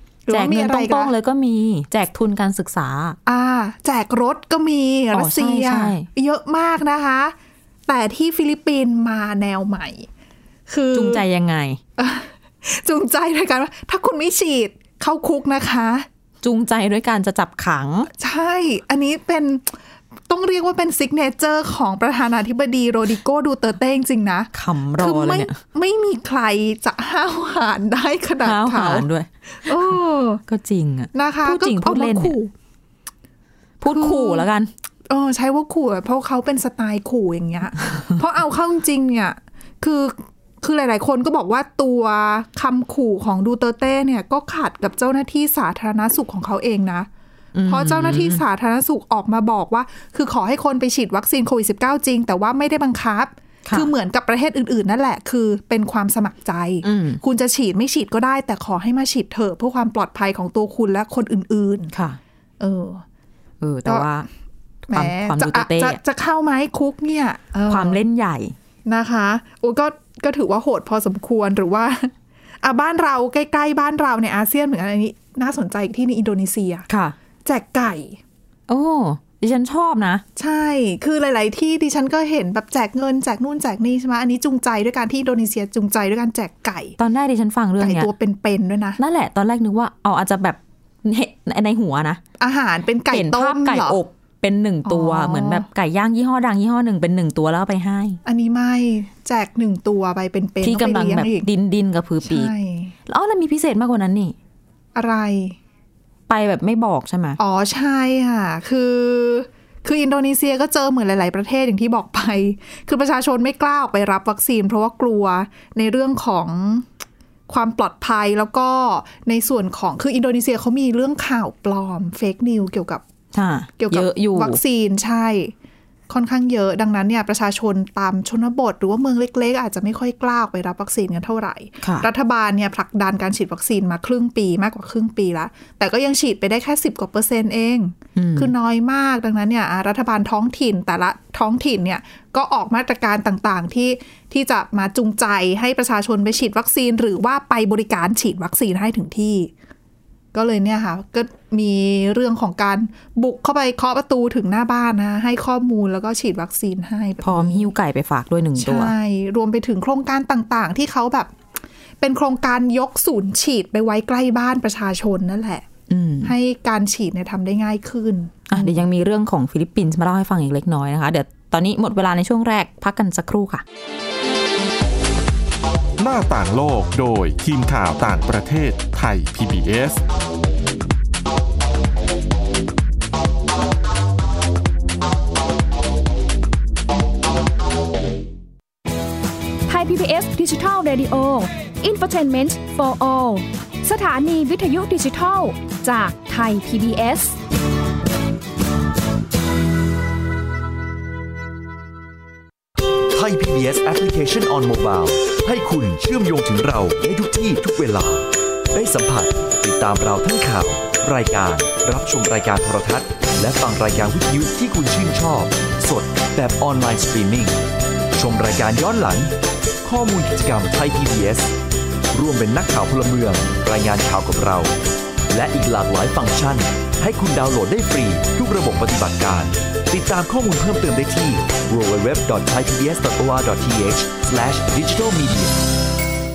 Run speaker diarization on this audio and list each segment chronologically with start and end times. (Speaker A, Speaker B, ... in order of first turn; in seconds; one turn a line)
Speaker A: 0.3-1.1
Speaker B: 0.3-3.2
Speaker A: 3.2-7.3
Speaker B: 5.1-6.1
Speaker A: 7.9-10.1
Speaker A: 10.7-11.2
Speaker B: 10.9-11.8
Speaker A: 12.0-16.1
Speaker B: 16.4-18.1
Speaker A: 18.2-19.8
Speaker A: 20.3-29.1
Speaker B: 24.5-25.6
Speaker B: 28.4-29.9
Speaker A: 29.6-30.4
Speaker B: 30.5-32.4
Speaker A: 31.1-32.5
Speaker B: 33.8-34.7
Speaker A: 33.9-34.5
Speaker A: 35.1-47.1
Speaker B: 47.5-48.4
Speaker A: 47.7-61.9
Speaker B: 56.8-57.2
Speaker B: 61.9-62.2
Speaker A: 62.6-63.0
Speaker B: 63.6-64.2
Speaker B: 64.9-66.0
Speaker A: 64.9-68.0
Speaker B: 67.7-68.5
Speaker A: 68.8-72.1
Speaker A: 72.6-76.9
Speaker B: 76.9-77.1
Speaker A: 77.4-78.2
Speaker B: 78.7-80.2
Speaker A: 80.3-87.0
Speaker B: 87.0-88.1
Speaker A: 87.8-89.0
Speaker B: 89.0-92.2
Speaker A: 92.4-94.0
Speaker B: 93.1-98.2
Speaker A: 94.8-95.7
Speaker A: 98.2-101.5
Speaker B: 100.6-102.5
Speaker A: 102.2-102.9
Speaker B: 103.1-104.3
Speaker A: 104.9-105.5
Speaker B: 106.3-107.4
Speaker A: 107.4-116.8
Speaker A: 117.5-123.0
Speaker B: 123.3-124.6
Speaker A: 123.8-125.5
Speaker A: 126.1-149.5
Speaker B: 131.8-132.1
Speaker B: 138.2-138.5
Speaker A: 150.3-157.7
Speaker B: 157.2-158.9
Speaker A: 158.6-161.3
Speaker A: 162.0-165.7
Speaker B: 165.9-166.3
Speaker A: 166.2-168.7
Speaker B: 168.5-173.6
Speaker C: 176.0-180.0
Speaker D: 189.7-197.4
Speaker E: 203.1-217.6
Speaker E: 218.2-221.5
Speaker E: 222.1-224.7
Speaker E: 225.3-235.6